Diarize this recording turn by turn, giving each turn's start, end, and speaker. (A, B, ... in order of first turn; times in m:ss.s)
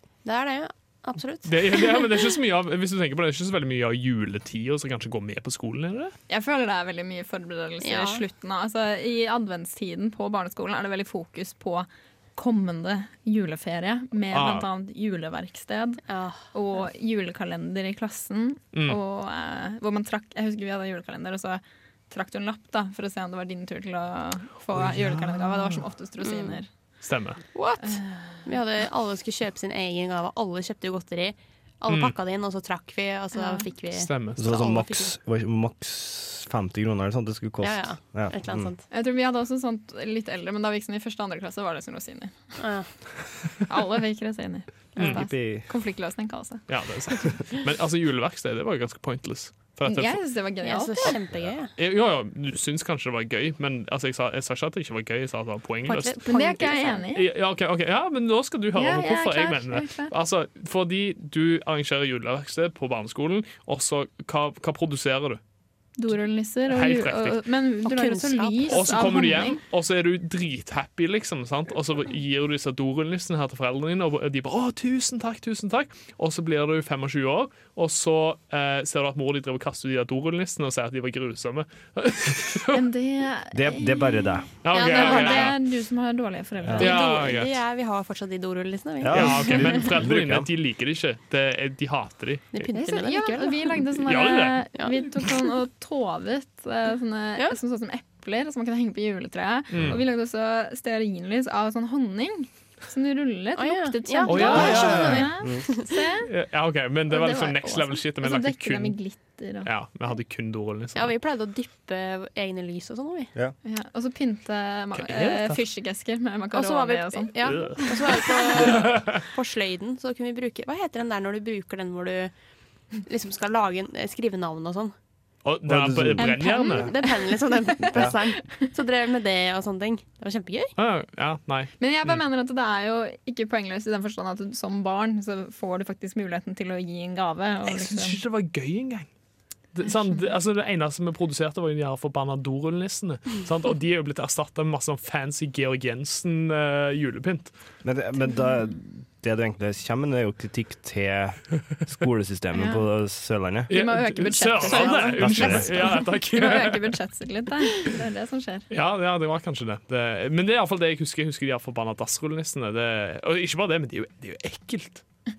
0:00.2-0:02.1 A
0:01.4-0:06.1 B
0:06.3-0:16.0 C
0:07.8-0:08.2 A
0:14.3-0:14.6 B
0:16.0-0:16.4 A
0:16.5-0:26.7 C
0:18.7-0:19.0 B
0:24.8-0:25.6 B
0:26.2-0:26.6 A
0:27.0-0:27.4 B
0:27.5-0:35.1 A
0:27.8-0:28.5 C
0:31.9-0:32.1 B
0:33.3-0:33.7 C
0:33.9-0:34.4 B
0:34.4-0:38.7 D
0:37.6-0:38.8 A
0:38.9-0:42.5 C
0:42.6-0:42.9 A
0:43.7-0:46.6 C
0:45.0-0:45.2 A
0:45.0-0:45.6 D
0:46.7-0:50.2 B
0:49.8-0:51.2 C
0:50.6-0:51.7 A
0:51.8-0:56.2 B
0:55.8-0:57.0 A
0:56.2-0:57.3 C
0:57.1-1:05.4 B
0:58.7-1:00.1 C
1:06.0-1:09.6 C
1:06.7-1:07.4 B
1:07.8-1:09.4 A
1:08.7-1:22.9 B
1:22.7-1:27.1 C
1:23.5-1:24.6 D
1:24.6-1:25.6 B
1:24.7-1:25.5 A
1:26.7-1:27.6 B
1:26.8-1:29.7 A
1:29.0-1:30.5 D
1:29.1-1:32.6 B
1:32.5-1:33.8 A
1:32.7-1:46.3 C
1:34.0-1:34.6 B
1:34.8-1:35.3 A
1:39.7-1:40.0 B
1:43.6-1:45.3 A
1:44.2-1:45.3 B
1:44.5-1:45.6 D
1:46.2-1:49.0 B
1:47.1-1:49.7 C
1:49.6-1:51.1 B
1:50.9-1:53.3 A
1:53.6-1:58.7 C
1:54.9-1:55.6 B
1:56.5-2:02.3 A
1:57.4-1:59.2 B
2:03.0-2:04.9 A
2:05.4-2:06.9 B
2:05.6-2:06.8 D
2:06.2-2:08.6 C
2:06.7-2:10.7 A
2:07.9-2:08.2 D
2:10.8-2:12.2 B
2:11.8-2:18.2 C
2:17.6-2:19.1 B
2:19.7-2:27.5 B
2:27.8-2:33.7 D
2:32.5-2:32.8 C
2:33.7-2:36.9 B
2:33.7-2:38.7 C
2:34.7-2:35.9 D
2:38.7-2:45.0 B